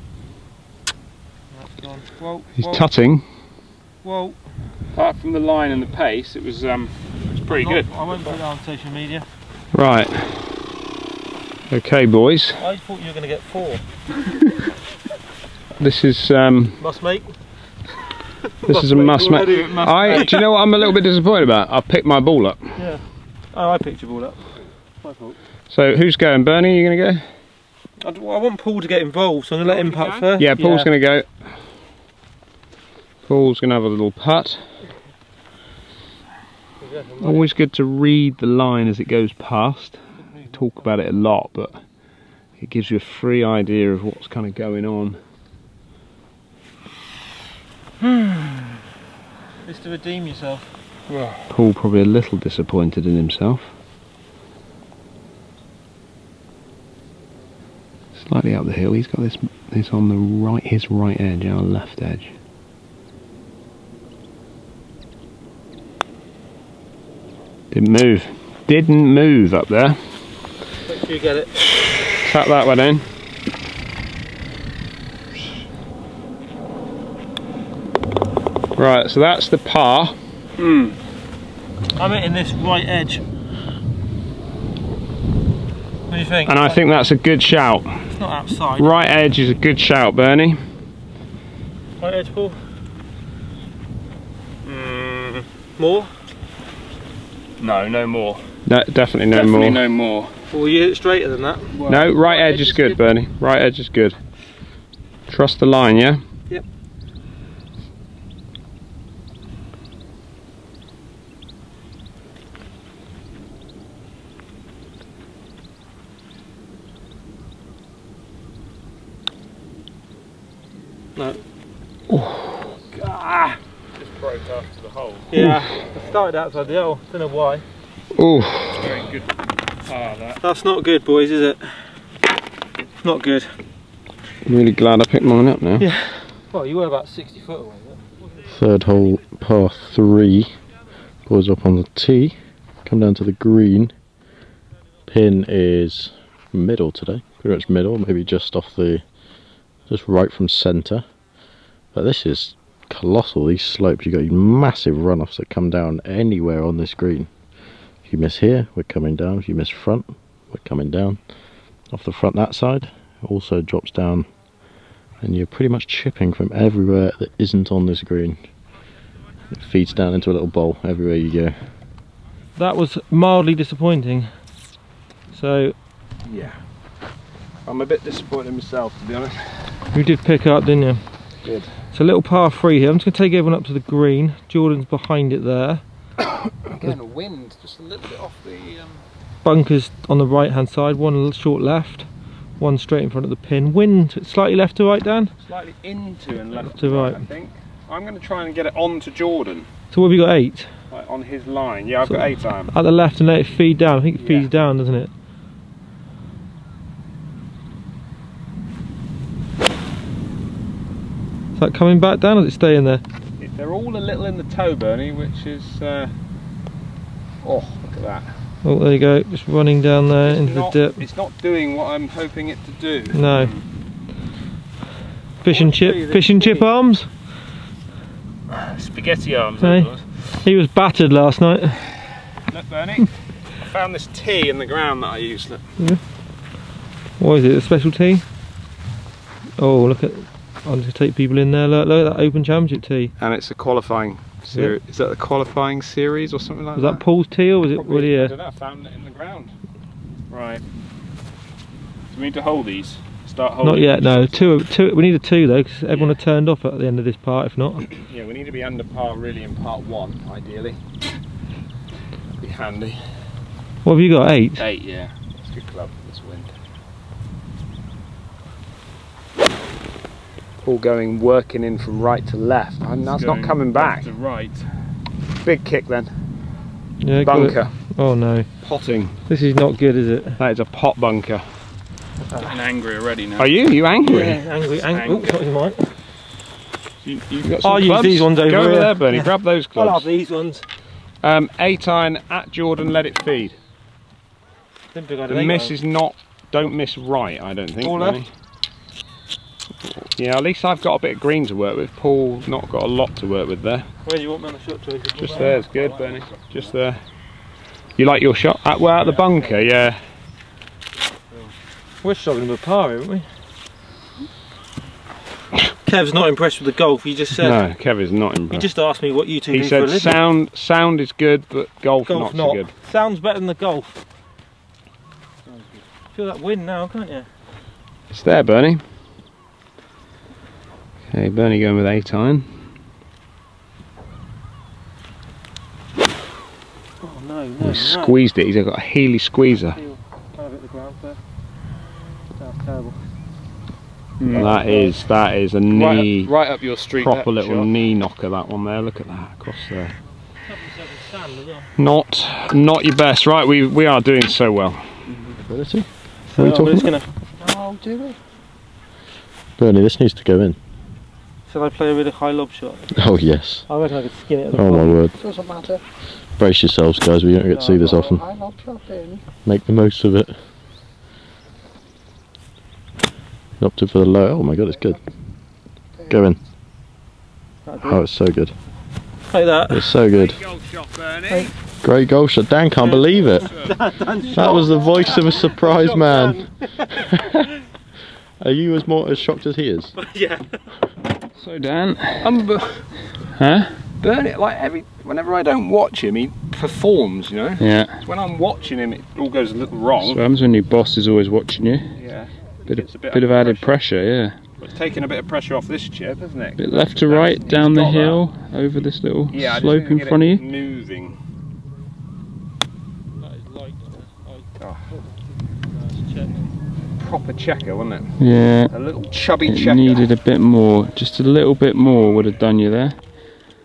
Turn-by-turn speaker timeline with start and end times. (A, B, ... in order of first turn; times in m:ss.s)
0:01.5-0:02.8 A
0:02.6-0:03.2 B
0:04.0-0:04.4 A
0:04.9-0:08.4 C
0:07.5-0:09.2 A
0:09.7-0:10.4 B
0:11.7-0:12.6 B
0:12.6-0:13.8 A
0:15.8-0:16.8 B
0:16.8-0:17.3 A
0:18.6-0:20.4 A
0:18.6-0:22.8 B
0:19.5-0:20.4 C
0:22.8-0:24.4 A
0:25.0-0:25.4 A
0:25.7-0:27.2 B
0:28.0-0:30.9 A
0:29.7-0:30.3 C
0:30.4-0:31.3 B
0:33.3-0:34.6 B
0:36.8-0:37.5 A
0:37.2-0:40.0 B
0:40.5-0:41.8 B
0:42.6-0:45.2 B
0:49.6-0:50.7 A
0:51.1-0:51.4 C
0:51.5-0:53.7 B
0:58.1-1:02.3 B
1:07.7-1:10.0 B
1:10.9-1:11.5 A
1:12.1-1:13.1 B
1:18.8-1:20.2 B
1:20.6-1:21.0 C
1:22.0-1:23.2 A
1:26.1-1:26.8 A
1:26.4-1:28.0 B
1:28.1-1:29.0 A
1:28.8-1:30.6 B
1:32.0-1:32.6 A
1:34.6-1:35.5 C
1:35.8-1:36.1 A
1:37.6-1:38.5 C
1:38.6-1:39.8 B
1:39.3-1:40.3 C
1:40.5-1:43.0 A
1:41.8-1:42.5 C
1:41.9-1:44.2 B
1:45.3-1:46.2 B
2:02.1-2:02.4 B
2:04.0-2:05.3 C
2:05.3-2:07.6 A
2:05.3-2:05.7 B
2:08.1-2:08.8 B
2:08.8-2:10.4 C
2:10.4-2:11.9 A
2:13.0-2:13.5 A
2:14.4-2:15.8 B
2:15.8-2:18.0 A
2:18.4-2:20.5 D
2:21.2-2:23.9 D
2:25.0-2:29.0 D
2:29.9-2:31.0 D
2:31.9-2:37.3 D
2:38.0-2:41.2 D
2:41.9-2:44.3 D
2:45.2-2:48.4 D
2:49.5-2:51.6 D
2:52.6-2:54.3 A
2:55.3-2:55.7 A
2:56.2-2:56.6 B
2:57.6-2:59.7 B
2:59.9-3:01.0 A
3:01.4-3:01.7 B
3:01.9-3:05.8 A
3:06.6-3:09.0 B
3:09.4-3:12.1 A
3:12.6-3:15.3 A
3:15.4-3:19.7 B
3:16.6-3:17.2 A
3:19.9-3:20.7 A
3:20.9-3:22.7 B
3:22.0-3:25.1 A
3:24.2-3:24.4 B
3:31.6-3:33.0 A
3:33.4-3:36.1 B
3:37.4-3:38.3 B
3:38.6-3:41.0 A
3:40.2-3:43.2 B
3:43.1-3:43.5 A
3:43.3-3:43.6 C
3:45.4-3:47.1 A
3:45.5-3:46.6 B
3:48.5-3:50.0 C
3:49.6-3:51.9 A
3:52.5-3:55.6 B
3:57.2-3:58.2 A
3:59.6-4:03.1 A
4:03.2-4:07.0 B
4:06.8-4:08.3 A
4:07.7-4:09.5 B
4:10.3-4:10.6 C
4:12.1-4:14.0 C
4:13.6-4:17.9 A
4:18.0-4:20.8 B
4:22.4-4:23.0 B
4:23.8-4:24.6 A
4:24.6-4:25.1 C
4:25.2-4:26.5 B
4:30.6-4:34.1 B
4:33.0-4:34.7 C
4:35.4-4:36.1 B
4:37.0-4:38.5 A
4:37.2-4:37.7 B
4:38.6-4:39.2 B
4:39.3-4:40.4 A
4:40.4-4:41.4 B
4:42.4-4:43.5 C
4:43.4-4:44.4 B
4:44.0-4:45.9 A
4:44.8-4:45.4 C
4:47.0-4:50.0 B
4:47.6-4:50.6 A
4:51.2-4:53.6 B
4:54.9-4:55.7 A
4:55.3-4:58.3 B
4:57.8-4:58.2 A
5:00.0-5:03.9 B
5:04.0-5:05.6 A
5:05.2-5:07.0 B
5:05.6-5:06.1 C
5:08.0-5:10.0 B
5:09.0-5:09.6 A
5:12.0-5:13.2 A
5:15.8-5:17.6 A
5:17.4-5:18.7 B
5:18.5-5:20.2 A
5:19.5-5:22.7 B
5:22.0-5:24.0 A
5:26.1-5:27.3 A
5:28.1-5:28.8 B
5:31.1-5:32.6 B
5:37.0-5:38.2 A
5:37.6-5:39.8 B
5:39.8-5:41.2 A
5:42.4-5:43.0 A
5:44.2-5:44.8 C
5:44.3-5:44.9 A
5:44.3-5:46.3 B
5:45.7-5:47.7 C
5:46.9-5:49.4 B
5:49.4-5:49.9 D
5:50.5-5:51.7 A
5:51.8-5:55.0 B
5:55.1-5:55.4 C
5:55.4-5:56.9 D
5:56.3-5:57.1 A
5:57.4-5:58.2 E
5:59.6-6:00.6 D
6:01.5-6:03.0 A
6:02.9-6:03.6 D
6:03.7-6:05.0 A
6:04.5-6:05.1 D
6:05.2-6:05.8 E
6:06.4-6:08.2 D
6:07.5-6:08.1 A
6:07.7-6:09.2 E
6:09.4-6:10.3 D
6:13.6-6:15.0 D
6:16.1-6:16.4 D
6:17.6-6:18.0 A
6:17.8-6:18.5 D
6:19.3-6:19.9 A
6:19.7-6:20.4 D
6:20.1-6:21.5 B
6:21.8-6:23.5 D
6:23.0-6:23.6 B
6:23.6-6:27.4 A
6:24.3-6:27.5 D
6:28.4-6:29.9 D
6:30.0-6:30.6 A
6:31.3-6:32.4 C
6:32.2-6:32.8 B
6:33.3-6:33.8 C
6:34.0-6:40.2 B
6:37.6-6:38.0 C
6:40.0-6:42.0 C
6:42.0-6:43.7 B
6:42.6-6:44.4 C
6:44.6-6:48.2 B
6:46.6-6:50.4 C
6:49.3-6:51.2 B
6:53.2-6:54.5 A
6:55.7-6:56.5 A
6:57.0-6:58.2 B
6:58.2-6:58.7 C
6:58.7-7:00.1 B
6:59.4-7:03.0 C